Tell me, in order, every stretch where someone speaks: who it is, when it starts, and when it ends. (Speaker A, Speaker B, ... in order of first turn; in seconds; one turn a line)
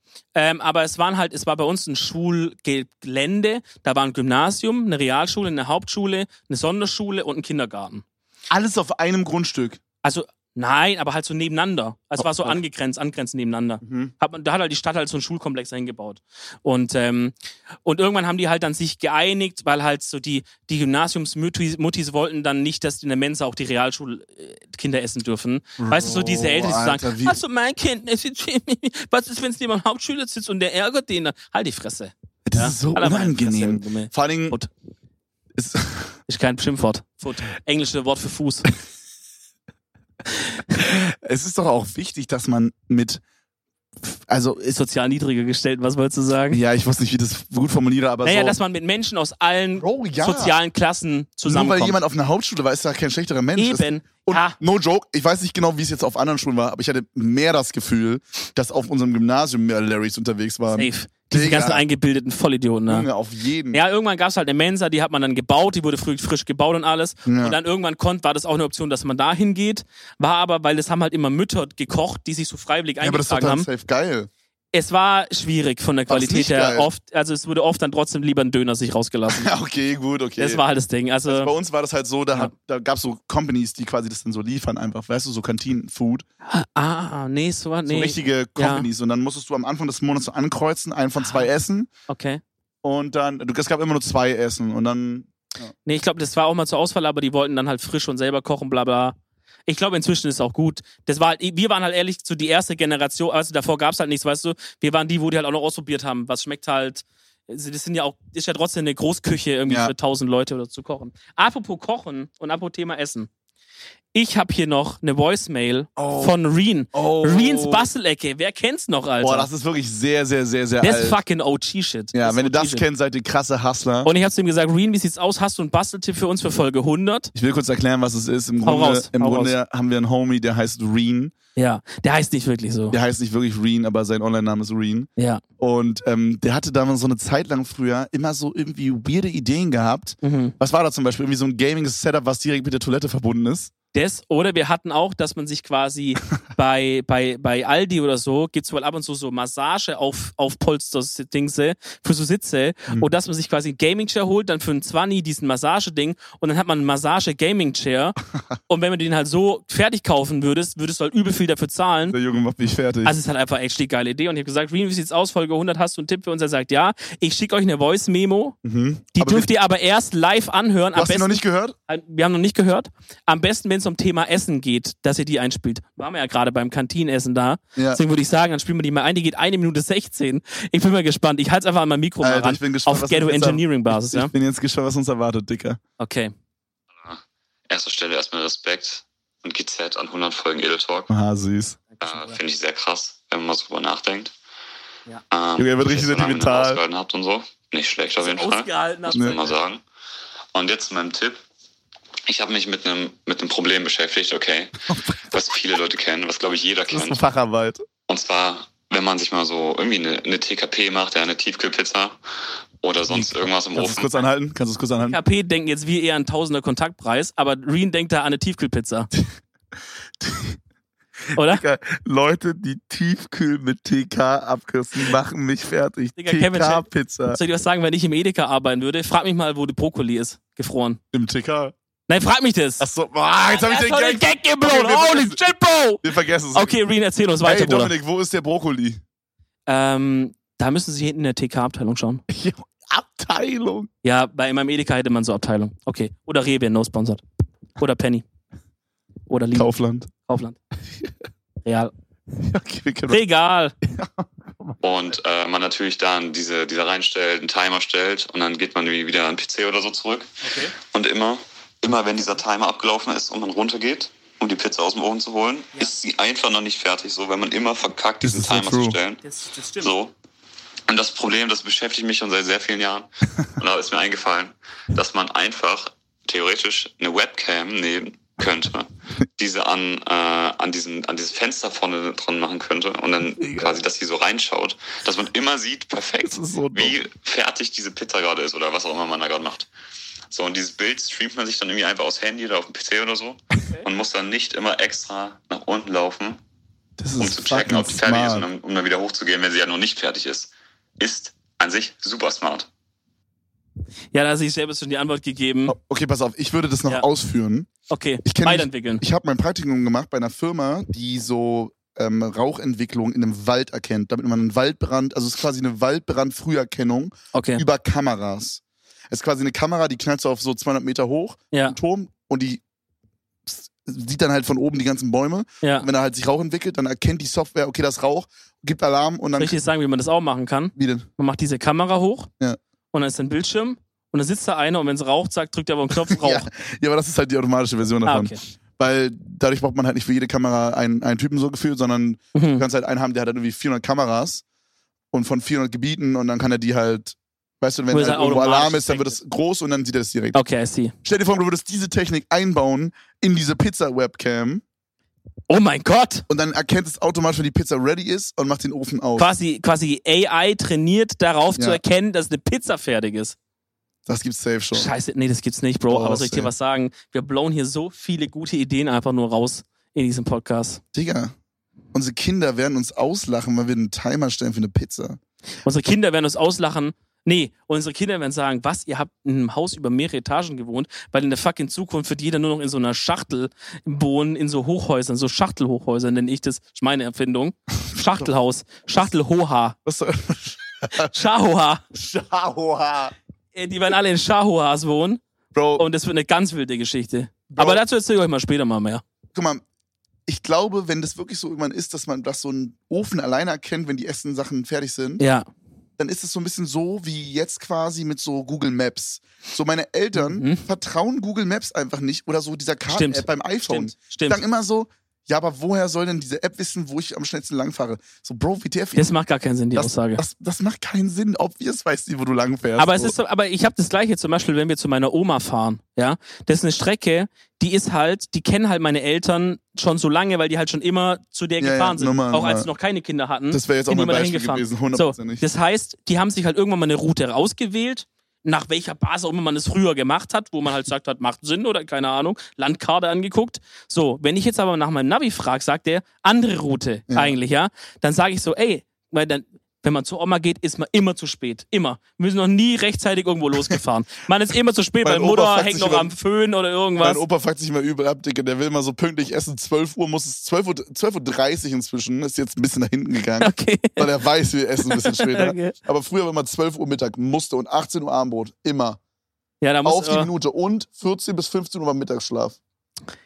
Speaker A: 0.3-8.0
Speaker B: 8.5-9.8
Speaker A: 10.0-34.7
Speaker B: 12.2-12.6
Speaker B: 13.8-14.1
Speaker B: 25.8-27.4
Speaker B: 32.5-34.6
Speaker B: 35.6-36.1
Speaker A: 36.3-38.6
Speaker B: 40.8-43.2
Speaker B: 44.1-44.7
Speaker A: 44.7-46.6
Speaker B: 46.5-48.5
Speaker A: 48.2-52.0
Speaker B: 49.8-50.6
Speaker B: 51.4-61.8
Speaker A: 53.5-54.6
Speaker A: 60.7-63.1
Speaker B: 62.9-63.8
Speaker A: 63.7-73.7
Speaker B: 67.2-67.6
Speaker B: 73.0-74.3
Speaker A: 74.7-79.5
Speaker B: 76.1-76.9
Speaker B: 79.3-80.6
Speaker A: 80.4-81.5
Speaker B: 81.3-86.2
Speaker A: 86.4-88.9
Speaker B: 87.8-91.9
Speaker A: 91.2-91.5
Speaker A: 92.1-92.4
Speaker B: 92.8-95.7
Speaker A: 95.8-99.2
Speaker A: 99.7-113.3
Speaker B: 109.7-109.9
Speaker A: 114.1-119.5
Speaker B: 116.0-116.3
Speaker B: 116.9-117.9
Speaker B: 119.2-121.2
Speaker A: 120.8-122.8
Speaker B: 122.1-124.1
Speaker A: 124.0-127.3
Speaker B: 127.3-131.3
Speaker A: 128.6-129.6
Speaker A: 131.6-132.9
Speaker B: 132.9-135.1
Speaker A: 135.2-135.4
Speaker B: 135.6-143.7
Speaker A: 140.2-140.5
Speaker A: 143.9-158.2
Speaker A: 158.7-162.2
Speaker B: 162.1-163.1
Speaker A: 163.0-168.6
Speaker B: 168.6-169.5
Speaker A: 169.1-184.3
Speaker B: 170.9-171.8
Speaker B: 182.2-185.8
Speaker A: 186.0-186.3
Speaker C: 187.0-191.1
Speaker B: 191.1-191.8
Speaker A: 191.9-192.4
Speaker C: 192.0-194.3
Speaker C: 195.3-199.8
Speaker B: 195.6-196.8
Speaker A: 198.2-199.4
Speaker B: 199.1-199.4
Speaker C: 200.5-201.4
Speaker C: 202.3-204.7
Speaker B: 204.9-205.3
Speaker C: 205.3-207.2
Speaker B: 206.9-207.8
Speaker C: 208.1-212.2
Speaker C: 212.8-214.2
Speaker B: 213.1-215.2
Speaker A: 215.0-219.1
Speaker B: 220.2-220.6
Speaker B: 221.3-227.4
Speaker A: 221.3-221.6
Speaker A: 226.2-231.0
Speaker B: 231.1-231.7
Speaker A: 232.1-232.8
Speaker B: 232.8-235.4
Speaker A: 233.4-237.9
Speaker B: 236.0-236.8
Speaker B: 237.4-239.0
Speaker A: 239.7-242.2
Speaker B: 242.3-243.9
Speaker A: 244.0-247.2
Speaker A: 247.8-248.2
Speaker A: 249.3-249.7
Speaker B: 249.5-250.1
Speaker A: 250.2-250.6
Speaker A: 251.6-251.9
Speaker B: 252.4-253.2
Speaker A: 253.1-253.7
Speaker B: 253.8-254.8
Speaker C: 254.8-260.3
Speaker A: 260.4-260.7
Speaker C: 260.9-269.2
Speaker B: 268.2-269.0
Speaker A: 269.2-269.9
Speaker C: 269.8-270.1
Speaker C: 270.9-289.7
Speaker B: 283.4-283.7
Speaker B: 286.2-287.0
Speaker C: 290.3-296.4
Speaker B: 297.0-298.4
Speaker C: 297.2-302.7
Speaker A: 304.1-305.7
Speaker B: 305.7-307.7
Speaker A: 307.9-309.0
Speaker B: 308.2-322.6
Speaker A: 317.3-317.6
Speaker A: 321.5-321.8
Speaker B: 323.5-329.6
Speaker A: 325.6-325.9
Speaker A: 329.4-332.3
Speaker B: 330.8-331.1
Speaker A: 332.9-336.5
Speaker B: 336.0-344.4
Speaker A: 338.0-338.4
Speaker A: 342.3-342.6
Speaker B: 345.1-350.4
Speaker A: 347.9-349.2
Speaker A: 350.3-350.9
Speaker B: 351.0-354.6
Speaker A: 355.5-356.2
Speaker B: 356.3-359.3
Speaker A: 359.2-363.4
Speaker B: 364.1-364.9
Speaker A: 364.7-370.8
Speaker B: 365.9-366.5
Speaker B: 370.9-371.3
Speaker B: 371.9-375.2
Speaker A: 375.6-389.8
Speaker B: 389.8-391.1
Speaker A: 391.0-391.8
Speaker B: 391.9-393.1
Speaker A: 393.5-395.2
Speaker B: 395.5-395.8
Speaker A: 395.8-399.0
Speaker B: 397.5-397.8
Speaker B: 399.3-399.6
Speaker B: 400.3-405.2
Speaker A: 405.2-405.5
Speaker B: 406.0-419.1
Speaker A: 410.1-410.6
Speaker A: 412.9-414.4
Speaker A: 418.9-420.2
Speaker B: 419.7-423.1
Speaker A: 422.8-457.2
Speaker B: 431.6-432.7
Speaker B: 433.5-435.4
Speaker B: 447.1-447.3
Speaker B: 455.0-456.1
Speaker B: 457.0-469.0
Speaker A: 463.4-464.1
Speaker A: 464.9-465.8
Speaker A: 469.6-470.3
Speaker B: 469.8-472.6